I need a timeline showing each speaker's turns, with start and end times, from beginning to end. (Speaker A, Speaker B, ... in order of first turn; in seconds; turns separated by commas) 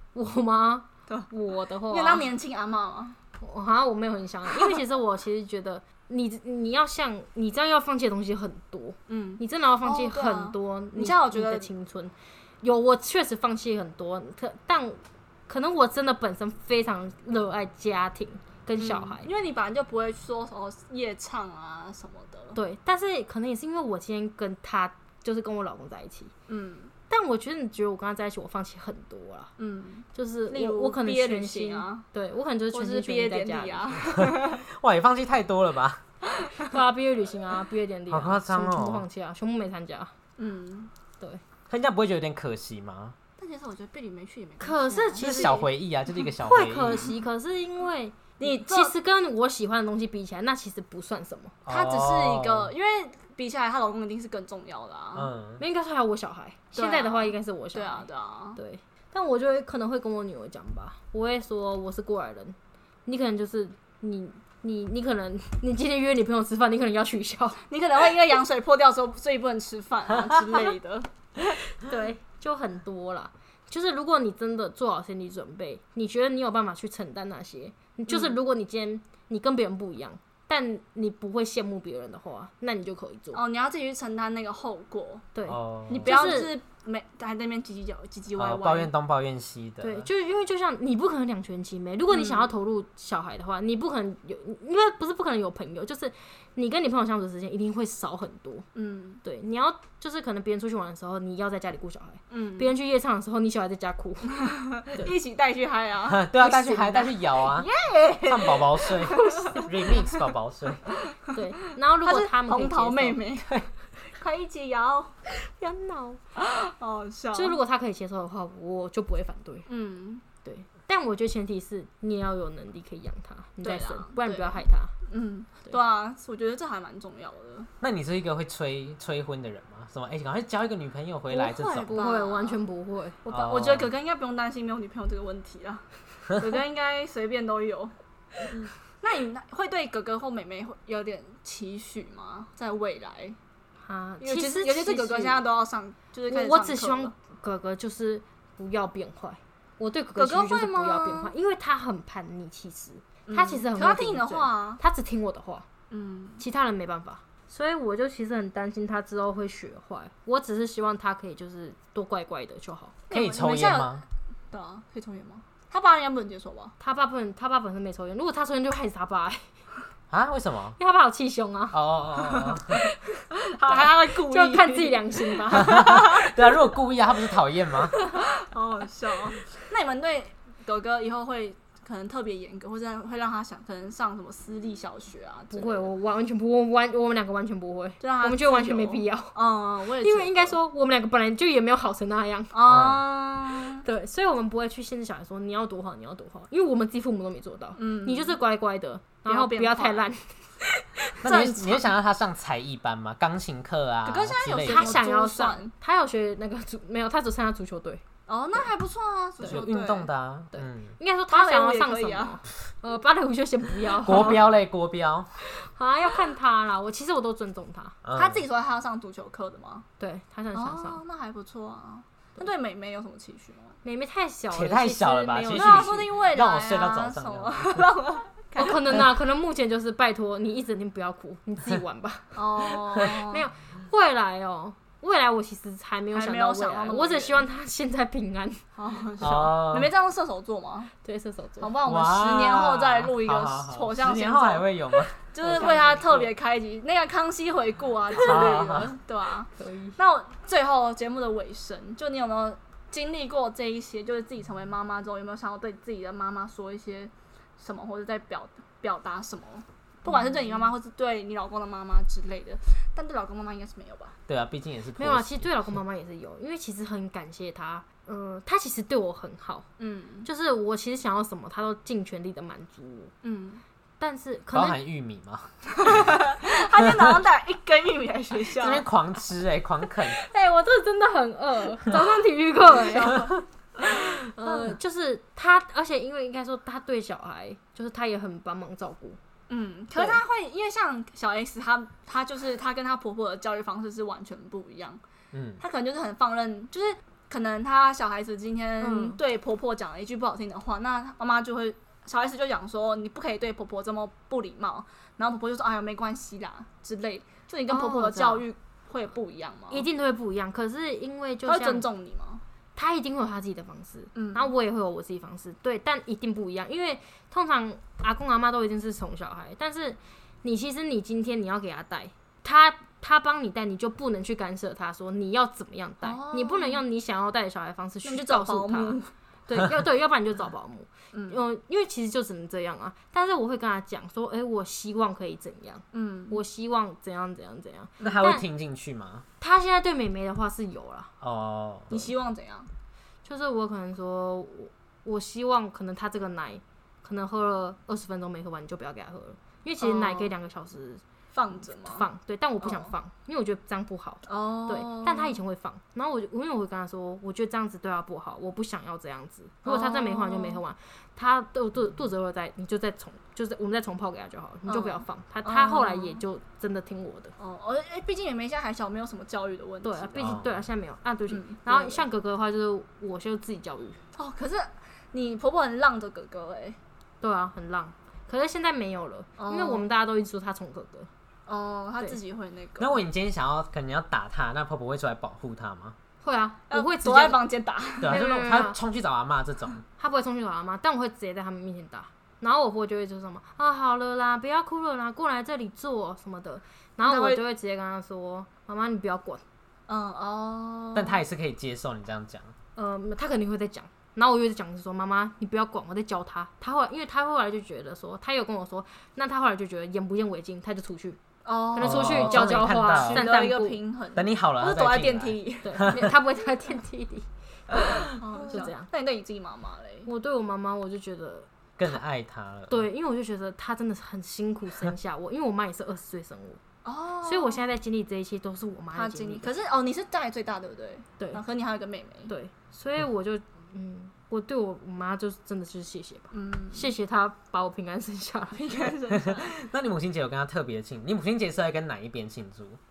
Speaker A: 0.1-2.3, Speaker B: 1.9-3.2, Speaker A: 3.4-19.3, Speaker B: 4.5-4.8, Speaker B: 9.1-11.7, Speaker B: 18.8-22.6, Speaker A: 22.6-26.3, Speaker B: 26.5-26.9, Speaker A: 27.1-29.5, Speaker B: 29.6-32.1, Speaker A: 30.1-34.0, Speaker B: 32.7-34.6, Speaker C: 34.2-36.0, Speaker B: 36.4-36.7, Speaker A: 36.7-40.1, Speaker C: 38.1-39.0, Speaker B: 40.4-40.9, Speaker C: 41.7-43.2, Speaker B: 43.4-45.6, Speaker A: 44.6-45.7, Speaker C: 45.2-47.1, Speaker A: 46.4-51.5, Speaker B: 48.4-48.9, Speaker C: 51.7-52.7, Speaker B: 51.7-55.3, Speaker C: 55.1-55.6, Speaker A: 55.6-67.6, Speaker B: 56.8-58.6, Speaker B: 67.7-71.1, Speaker A: 71.8-83.4, Speaker B: 78.1-78.4, Speaker B: 83.3-85.3, Speaker A: 85.3-86.6, Speaker C: 85.5-86.3, Speaker B: 85.9-88.9, Speaker C: 88.4-90.1, Speaker A: 89.8-98.7, Speaker B: 92.1-92.5, Speaker B: 98.8-99.2, Speaker A: 99.2-104.4, Speaker B: 102.3-102.7, Speaker B: 104.3-106.2, Speaker C: 106.1-107.7, Speaker A: 106.4-107.2, Speaker B: 107.5-110.1, Speaker C: 108.2-110.8, Speaker B: 111.1-111.4, Speaker A: 111.3-113.2, Speaker B: 112.0-113.6, Speaker B: 114.2-115.1, Speaker A: 115.3-116.2, Speaker B: 116.3-117.6, Speaker A: 117.3-119.7, Speaker B: 119.7-120.2, Speaker A: 120.4-124.9, Speaker B: 123.6-127.7, Speaker C: 127.8-132.0, Speaker A: 131.3-133.2, Speaker B: 131.6-132.6, Speaker B: 133.2-137.9, Speaker C: 133.3-133.9, Speaker B: 139.0-143.4, Speaker A: 143.8-145.4, Speaker B: 144.2-147.1, Speaker A: 146.3-155.7, Speaker B: 150.2-151.3, Speaker B: 153.3-154.8, Speaker B: 155.9-156.4, Speaker A: 156.4-163.0, Speaker B: 163.1-166.8, Speaker C: 163.1-164.0, Speaker A: 166.8-169.5, Speaker C: 170.1-170.8, Speaker A: 170.8-171.8, Speaker C: 171.7-172.8, Speaker B: 172.3-172.6, Speaker B: 173.3-176.4, Speaker A: 173.7-176.0, Speaker C: 175.6-178.0, Speaker B: 178.1-185.9, Speaker A: 185.5-189.4, Speaker B: 188.0-190.6, Speaker A: 190.0-192.6, Speaker B: 192.5-193.8, Speaker C: 192.7-193.0, Speaker A: 193.8-201.2, Speaker B: 197.8-198.4, Speaker B: 199.3-200.1, Speaker C: 201.2-205.0, Speaker B: 201.2-201.9, Speaker B: 204.1-205.7, Speaker A: 204.7-208.0, Speaker B: 208.3-210.1, Speaker C: 209.4-210.9, Speaker A: 210.5-214.4, Speaker B: 211.3-212.4, Speaker C: 214.0-215.3, Speaker A: 215.4-218.0, Speaker C: 218.0-218.4, Speaker B: 218.2-219.9, Speaker A: 220.0-221.0, Speaker B: 220.5-223.8, Speaker A: 223.8-225.9, Speaker C: 224.5-227.9, Speaker B: 225.4-229.1, Speaker A: 228.6-238.6, Speaker B: 232.3-233.5, Speaker B: 236.1-237.4, Speaker B: 238.8-240.9, Speaker C: 239.2-239.9, Speaker A: 241.0-241.7, Speaker B: 241.6-264.2, Speaker C: 241.8-246.2, Speaker A: 245.6-246.0, Speaker C: 248.2-249.0, Speaker A: 249.6-250.0, Speaker A: 260.1-260.6, Speaker C: 264.3-265.5, Speaker A: 265.0-269.7, Speaker B: 269.8-270.3, Speaker A: 270.2-273.1, Speaker B: 273.2-273.6, Speaker A: 274.0-274.8, Speaker C: 274.5-276.1, Speaker B: 275.8-278.9, Speaker C: 278.6-280.2, Speaker A: 280.2-289.2, Speaker B: 281.9-283.2, Speaker B: 289.5-295.0, Speaker A: 290.0-290.2, Speaker C: 295.3-295.6, Speaker B: 295.6-309.9, Speaker A: 298.8-299.2, Speaker A: 307.7-308.5, Speaker A: 309.7-311.9, Speaker B: 311.4-312.4, Speaker A: 312.8-338.4, Speaker B: 314.1-314.5, Speaker B: 326.0-326.8, Speaker B: 328.0-329.1, Speaker B: 331.1-331.4, Speaker B: 335.9-336.4, Speaker C: 338.0-339.3, Speaker A: 339.4-341.1, Speaker C: 341.2-341.9, Speaker B: 341.9-342.7, Speaker A: 343.2-351.0, Speaker B: 349.8-350.3, Speaker B: 351.3-352.1, Speaker A: 351.6-367.3, Speaker B: 352.6-352.9, Speaker B: 354.3-355.4, Speaker B: 359.6-360.6, Speaker B: 364.7-366.2, Speaker B: 367.4-370.4, Speaker A: 369.8-374.0, Speaker C: 370.2-370.6, Speaker B: 371.3-372.0, Speaker B: 374.2-376.8, Speaker A: 377.2-381.1, Speaker B: 379.4-379.9, Speaker B: 381.5-383.0, Speaker C: 382.8-386.0, Speaker A: 386.2-387.4, Speaker B: 386.7-388.2, Speaker C: 388.0-389.8, Speaker A: 388.1-388.8, Speaker A: 390.0-399.4, Speaker B: 397.0-397.4, Speaker B: 399.9-401.2, Speaker C: 400.9-402.5, Speaker A: 402.8-411.2, Speaker B: 411.4-416.1, Speaker A: 411.7-413.8, Speaker C: 411.8-413.3, Speaker C: 414.1-416.1, Speaker A: 415.6-418.9, Speaker B: 418.0-420.1, Speaker A: 420.1-422.0, Speaker C: 421.8-422.9, Speaker A: 422.7-426.6, Speaker B: 426.8-427.6, Speaker A: 427.2-429.5, Speaker B: 428.9-432.3, Speaker A: 432.3-438.7, Speaker B: 436.3-436.9, Speaker B: 438.5-439.5, Speaker C: 439.1-442.8